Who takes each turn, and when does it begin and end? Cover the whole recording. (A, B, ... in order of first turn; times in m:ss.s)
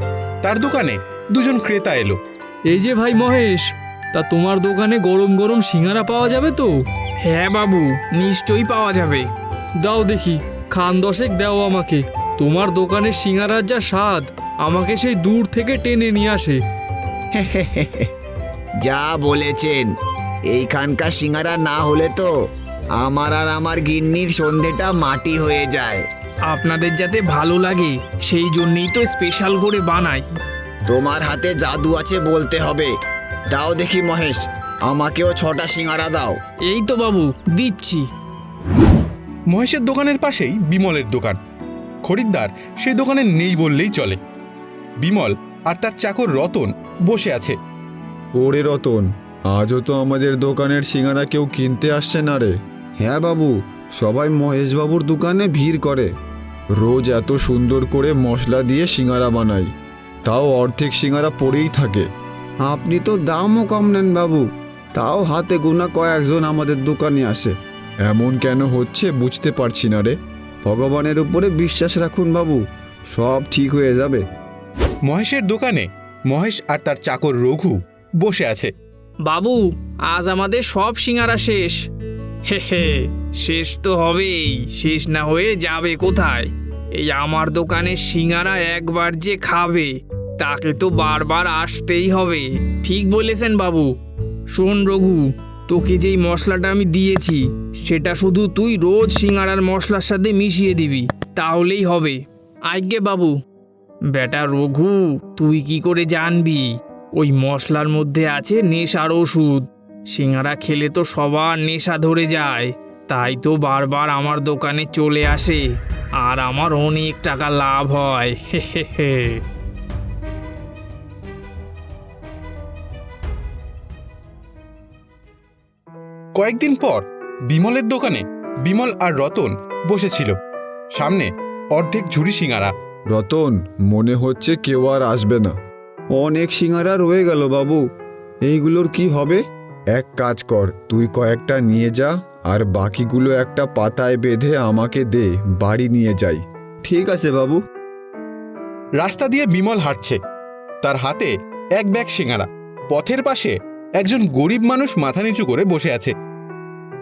0:00.4-0:02.2 A
0:02.7-0:06.7 B
0:07.2-0:09.2 C
0:09.8-0:16.6 B
0:17.3-0:18.1 D
0:18.8-0:19.9 D
0:20.5-0:22.3 D
0:23.0-0:26.0 D
0:26.5-0:30.2 C
0:30.9-0:32.9 D
0:33.5-0:36.4 D
0:36.7-0:38.1 C
0:39.5-0:41.4 A
0:42.0-0:44.2 A
0:45.0-0:47.6 A
0:48.4-0:56.1 E
0:56.8-0:59.7 E
1:00.2-1:02.1 E
1:02.6-1:07.5 E
1:08.0-1:12.6 E
1:13.1-1:14.2 E
1:15.1-1:18.7 A
1:19.2-1:21.8 C
1:22.5-1:33.9 C
1:34.5-1:43.3 C
1:44.1-1:55.6 C
1:56.2-1:59.4 C
2:06.4-2:10.3 A
2:10.9-2:12.7 A
2:13.1-2:15.5 E
2:16.1-2:17.8 E
2:18.4-2:19.4 E
2:19.9-2:27.6 E
2:29.0-2:30.2 A
2:30.8-2:36.1 A